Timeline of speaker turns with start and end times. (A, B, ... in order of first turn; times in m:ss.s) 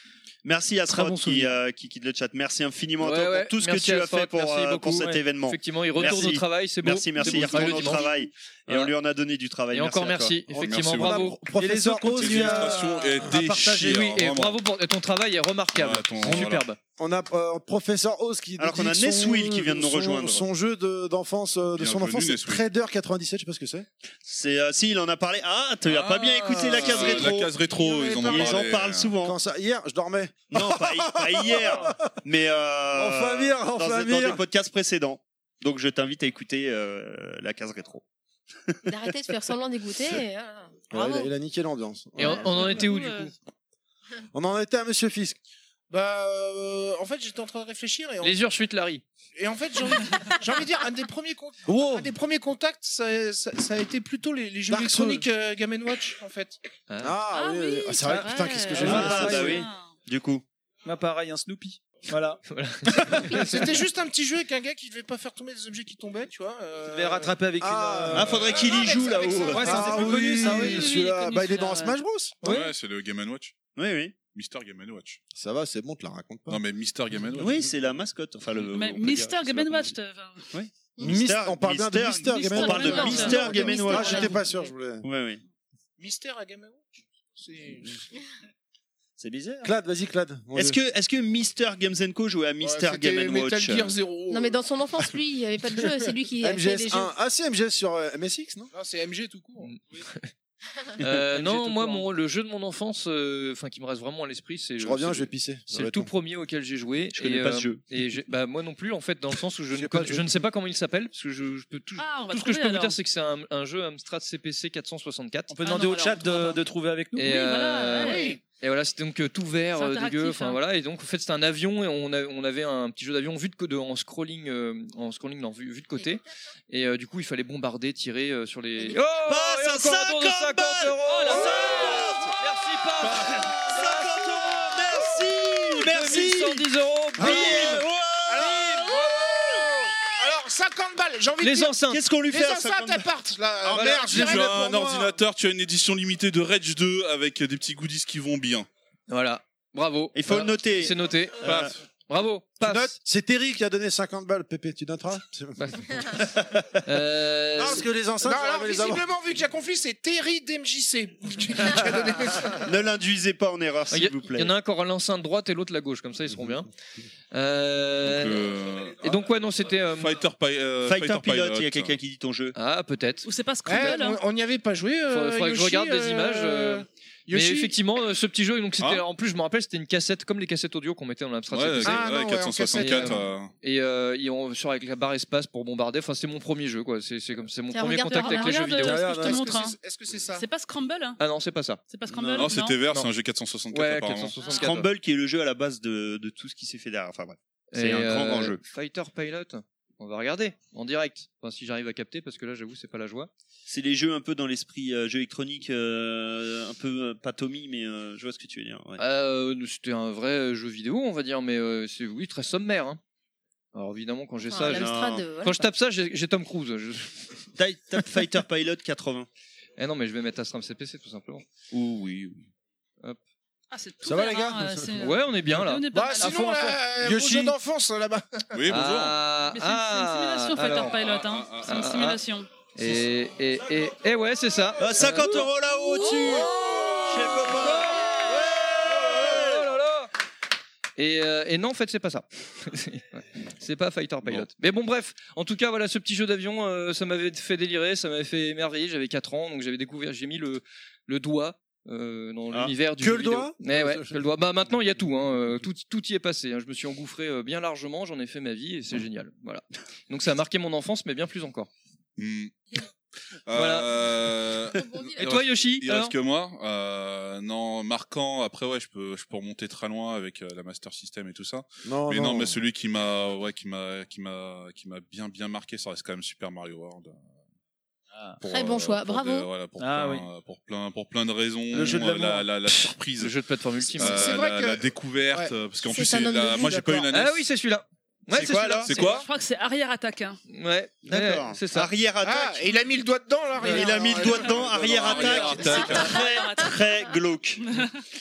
0:00.4-0:10.4 A
0:01.0-0:01.4 B
0:03.0-0:08.9 B
0:09.7-0:11.4 B
0:10.5-0:11.4 C
0:10.6-0:13.0 D
0:11.5-0:14.0 E
0:12.0-0:14.6 C
0:13.8-0:16.8 B
0:15.8-0:16.7 C
0:17.0-0:23.9 D
0:18.6-0:20.4 A
0:21.8-0:22.6 C
0:24.2-0:27.5 A
0:25.8-0:29.1 C
0:26.8-0:28.7 F
0:28.2-0:29.4 A
0:29.2-0:32.1 D
0:30.5-0:38.0 A
0:32.9-0:34.4 D
0:38.9-0:41.3 G
0:40.9-0:42.9 D
0:42.2-0:43.3 B
0:42.2-0:43.3 H
0:44.3-0:45.4 D
0:45.9-0:48.4 F
0:48.2-0:49.0 B
0:49.4-0:56.6 F
0:51.7-0:52.1 D
0:54.7-0:55.3 D
0:56.9-0:57.2 B
0:57.0-0:59.6 D
0:57.3-1:00.0 H
0:58.8-0:59.6 E
0:58.9-1:00.4 A
1:00.8-1:02.4 E
1:02.5-1:03.6 B
1:03.1-1:07.4 F
1:06.9-1:08.4 E
1:07.6-1:08.8 D
1:08.1-1:10.0 A
1:08.5-1:09.5 F
1:08.7-1:12.0 H
1:09.5-1:10.8 E
1:09.5-1:12.5 D
1:12.4-1:13.6 C
1:12.4-1:12.7 E
1:13.8-1:14.2 A
1:14.3-1:15.2 C
1:15.3-1:16.6 D
1:16.5-1:17.6 C
1:17.4-1:19.9 A
1:18.7-1:20.5 H
1:20.5-1:24.4 A
1:21.0-1:21.3 G
1:21.0-1:25.0 D
1:22.5-1:24.4 H
1:22.8-1:24.5 G
1:25.0-1:25.4 A
1:26.0-1:28.1 F
1:29.2-1:29.7 A
1:29.6-1:30.8 D
1:30.5-1:34.0 A
1:32.6-1:34.6 F
1:34.3-1:37.1 G
1:36.4-1:38.7 D
1:38.7-1:39.8 F
1:41.0-1:55.5 B
1:41.3-1:42.1 E
1:44.8-1:46.1 D
1:47.2-1:47.8 A
1:49.7-1:50.4 D
1:52.0-1:53.0 H
1:55.5-1:57.3 E
1:55.6-1:56.7 H
1:57.2-2:14.7 B
1:57.2-1:58.4 H
1:58.0-1:58.4 F
1:59.8-2:00.6 H
2:08.9-2:12.3 A
2:11.3-2:11.6 D
2:11.8-2:12.2 F
2:13.2-2:16.7 A
2:15.7-2:17.9 B
2:17.2-2:17.8 D
2:17.2-2:18.4 A
2:18.3-2:24.6 F
2:18.5-2:19.5 B
2:21.4-2:22.0 B
2:21.9-2:23.1 A
2:23.7-2:25.2 D
2:23.7-2:24.0 A
2:24.1-2:28.7 C
2:29.1-2:33.0 B
2:30.1-2:31.7 A
2:32.6-2:36.3 D
2:35.6-2:36.2 B
2:36.8-2:37.9 B
2:37.6-2:39.1 D
2:38.2-2:42.7 F
2:42.7-2:44.5 A
2:43.9-2:46.7 B
2:47.3-2:48.5 B
2:48.0-2:51.9 C
2:49.0-2:50.2 B
2:50.8-2:52.6 A
2:52.6-2:53.3 B
2:53.2-2:54.2 H
2:53.6-2:57.7 F
2:55.1-3:02.0 B
3:01.5-3:03.5 C
3:01.8-3:03.2 F
3:02.8-3:09.4 B
3:07.7-3:08.6 G
3:07.9-3:09.8 H
3:08.8-3:10.5 F
3:10.3-3:11.2 H
3:11.2-3:11.8 B
3:11.9-3:12.8 H
3:12.1-3:12.5 A
3:12.4-3:14.4 C
3:13.7-3:14.9 B
3:14.4-3:14.7 H
3:14.5-3:18.6 A
3:17.7-3:23.3 B
3:23.7-3:29.0 A
3:29.0-3:33.0 B
3:33.7-3:37.3 B
3:34.4-3:35.7 G
3:34.6-3:35.2 A
3:37.6-3:39.3 A
3:39.8-3:41.4 B
3:41.7-3:42.4 A
3:43.7-3:46.7 H
3:44.0-3:45.0 D
3:45.0-3:45.9 B
3:45.9-3:48.6 F
3:47.0-3:47.6 D
3:48.5-3:49.2 C
3:48.7-3:50.9 B
3:49.5-3:52.5 H
3:50.8-3:51.9 C
3:51.6-3:52.2 B
3:52.8-3:55.5 B
3:54.8-3:59.7 A
3:56.0-3:56.6 H
3:56.1-3:58.1 B
3:56.3-3:57.4 F
3:58.8-4:00.1 B
4:01.0-4:21.7 B
4:13.0-4:14.3 D
4:22.2-4:22.5 C
4:23.5-4:37.2 C
4:23.5-4:23.9 B
4:24.7-4:25.3 G
4:25.2-4:26.1 B
4:31.8-4:32.6 D
4:38.1-4:38.4 E
4:38.4-4:43.4 C
4:38.4-4:39.5 G
4:39.8-4:40.3 E
4:41.7-4:42.4 E
4:43.2-4:44.4 B
4:44.0-4:47.4 C
4:44.0-4:45.5 F
4:45.9-4:47.1 G
4:47.1-4:49.2 B
4:48.3-4:48.9 F
4:48.3-4:48.9 A
4:48.8-4:49.3 C
4:48.9-4:50.4 H
4:50.5-4:51.9 B
4:51.1-4:52.8 A
4:52.2-4:55.4 F
4:53.6-4:57.6 A
4:54.7-4:56.2 C
4:55.1-4:57.0 H
4:55.6-4:55.9 B
4:57.6-4:58.0 H